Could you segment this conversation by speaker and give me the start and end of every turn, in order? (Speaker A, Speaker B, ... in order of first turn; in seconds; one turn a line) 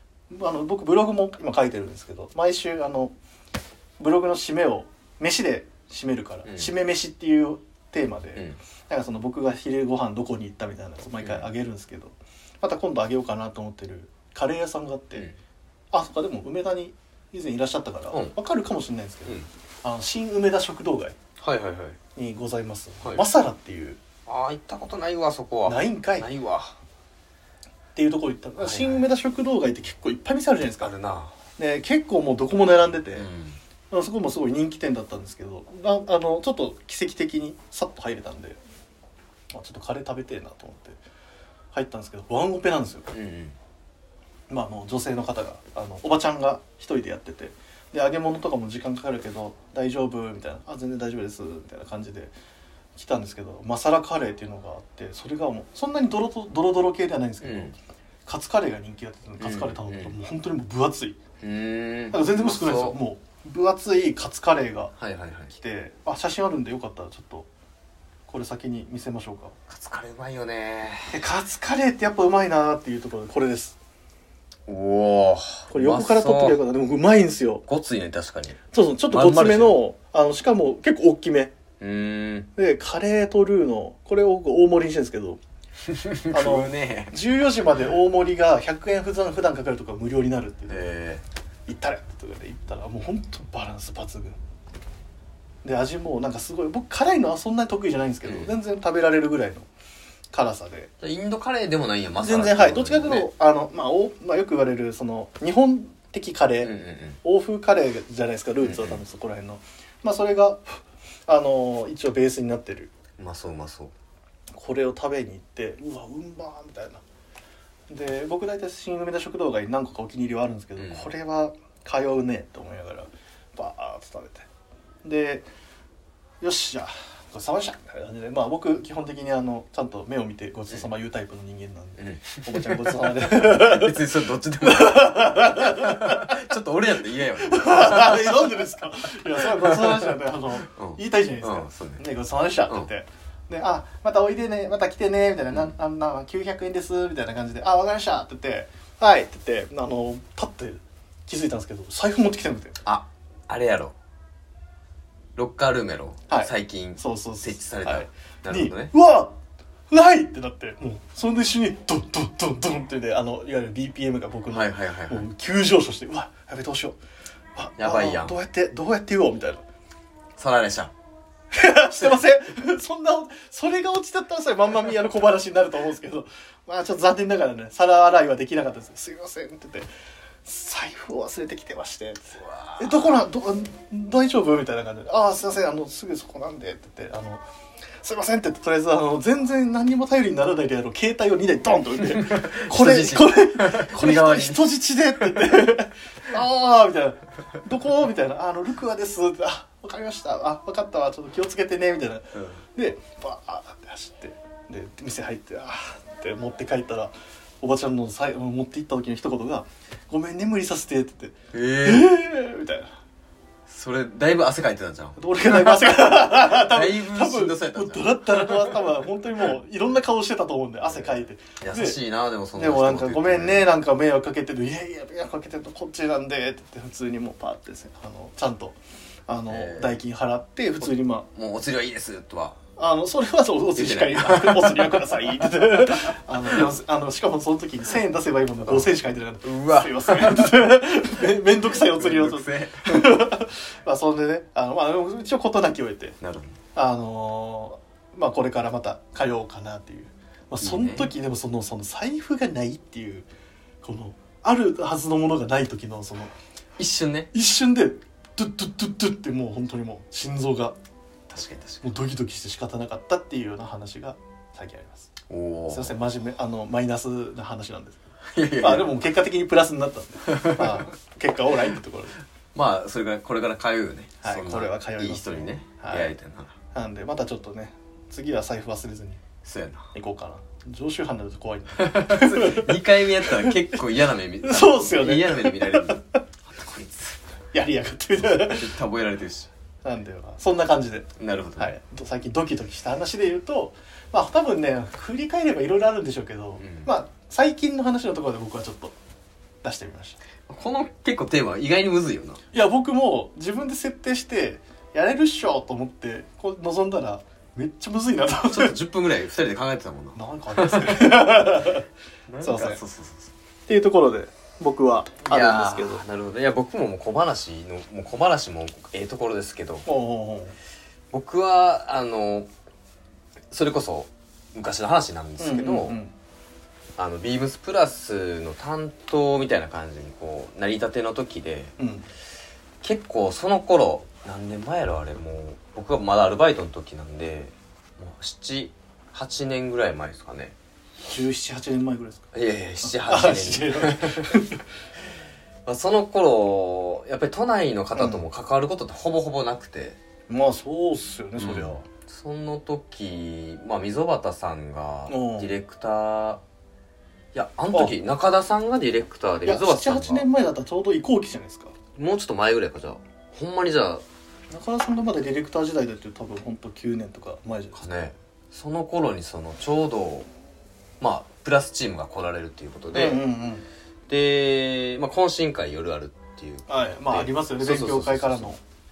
Speaker A: 0.3-3.1
Speaker A: 4.0-15.3
Speaker B: 6.4-6.7
Speaker B: 11.2-11.5
Speaker A: 15.9-21.1
Speaker B: 21.4-22.0
Speaker A: 22.1-24.0
Speaker B: 24.2-26.8
Speaker A: 25.6-26.3
Speaker A: 27.9-30.9
Speaker B: 28.6-29.0
Speaker B: 30.8-31.3
Speaker A: 31.6-33.3
Speaker B: 33.1-33.6
Speaker A: 33.9-38.6
Speaker A: 39.5-41.0
Speaker A: 41.7-43.1
Speaker B: 43.1-43.5
Speaker A: 44.5-52.3
Speaker A: 52.9-61.2
Speaker B: 57.4-57.7
Speaker B: 59.4-60.1
Speaker B: 61.4-63.0
Speaker A: 62.1-64.9
Speaker B: 65.0-65.5
Speaker A: 65.5-67.5
Speaker A: 68.3-69.5
Speaker B: 69.7-71.2
Speaker A: 71.1-73.8
Speaker B: 74.7-76.6
Speaker A: 75.7-77.6
Speaker B: 77.7-79.8
Speaker A: 78.7-81.5
Speaker B: 81.8-82.5
Speaker A: 82.5-85.4
Speaker B: 85.8-87.2
Speaker A: 86.3-90.8
Speaker B: 90.7-91.2
Speaker A: 91.7-94.4
Speaker A: 95.6-99.7
Speaker B: 98.2-98.5
Speaker A: 100.3-100.9
Speaker B: 101.0-103.3
Speaker A: 102.2-112.9
Speaker B: 106.6-107.2
Speaker B: 108.6-109.0
Speaker B: 113.2-113.9
Speaker A: 114.5-117.0
Speaker A: 117.9-124.5
Speaker B: 120.8-121.1
Speaker A: 125.0-125.5
Speaker A: 126.4-134.0
Speaker B: 132.0-138.6
Speaker A: 134.6-136.4
Speaker A: 137.4-152.8
Speaker B: 139.4-142.0
Speaker B: 152.8-153.9
Speaker B: 155.3-158.9
Speaker A: 156.3-159.4
Speaker A: 159.9-167.0
Speaker B: 164.5-165.3
Speaker A: 167.5-169.6
Speaker B: 167.8-168.4
Speaker B: 170.4-170.9
Speaker A: 171.5-179.9
Speaker A: 180.4-187.4
Speaker B: 182.4-183.1
Speaker A: 188.0-212.9
Speaker B: 192.0-194.7
Speaker B: 195.2-195.6
Speaker B: 202.3-202.6
Speaker B: 211.5-212.1
Speaker B: 213.7-218.8
Speaker A: 215.2-222.0
Speaker B: 221.0-223.7
Speaker A: 222.5-231.3
Speaker B: 229.5-230.0
Speaker B: 231.3-232.6
Speaker A: 232.8-246.2
Speaker B: 233.8-236.7
Speaker B: 238.6-238.9
Speaker B: 239.4-243.2
Speaker B: 246.2-246.6
Speaker A: 246.7-253.3
Speaker B: 250.6-251.1
Speaker A: 253.8-256.3
Speaker B: 256.8-257.3
Speaker A: 257.3-260.8
Speaker B: 261.3-261.9
Speaker A: 261.8-265.1
Speaker B: 265.3-265.9
Speaker A: 265.7-272.1
Speaker B: 268.2-268.9
Speaker B: 270.2-270.9
Speaker B: 272.5-276.6
Speaker A: 274.2-276.1
Speaker A: 276.7-279.2
Speaker B: 279.4-279.9
Speaker A: 279.9-283.8
Speaker B: 281.8-287.2
Speaker A: 284.4-286.1
Speaker A: 287.5-288.7
Speaker B: 288.2-289.5
Speaker A: 289.8-298.9
Speaker B: 291.2-291.7
Speaker B: 296.6-296.9
Speaker A: 299.6-300.2
Speaker B: 300.5-302.4
Speaker A: 302.5-308.8
Speaker B: 308.4-311.7
Speaker A: 310.1-311.9
Speaker B: 312.3-313.3
Speaker A: 312.4-312.8
Speaker A: 313.7-316.0
Speaker B: 315.2-319.9
Speaker A: 319.9-320.6
Speaker B: 321.1-322.5
Speaker B: 323.5-326.0
Speaker A: 325.4-326.1
Speaker B: 327.0-331.7
Speaker A: 331.8-332.1
Speaker B: 332.8-340.5
Speaker A: 341.0-342.2
Speaker B: 342.3-344.4
Speaker A: 342.8-344.6
Speaker B: 345.6-350.0
Speaker A: 347.9-348.2
Speaker A: 350.3-351.8
Speaker B: 351.4-356.4
Speaker A: 355.1-355.5
Speaker B: 357.3-360.2
Speaker A: 359.4-361.7
Speaker B: 361.9-364.0
Speaker A: 364.5-367.8
Speaker B: 367.7-370.3
Speaker B: 371.0-373.2
Speaker A: 372.9-373.6
Speaker B: 374.1-378.5
Speaker A: 376.7-378.6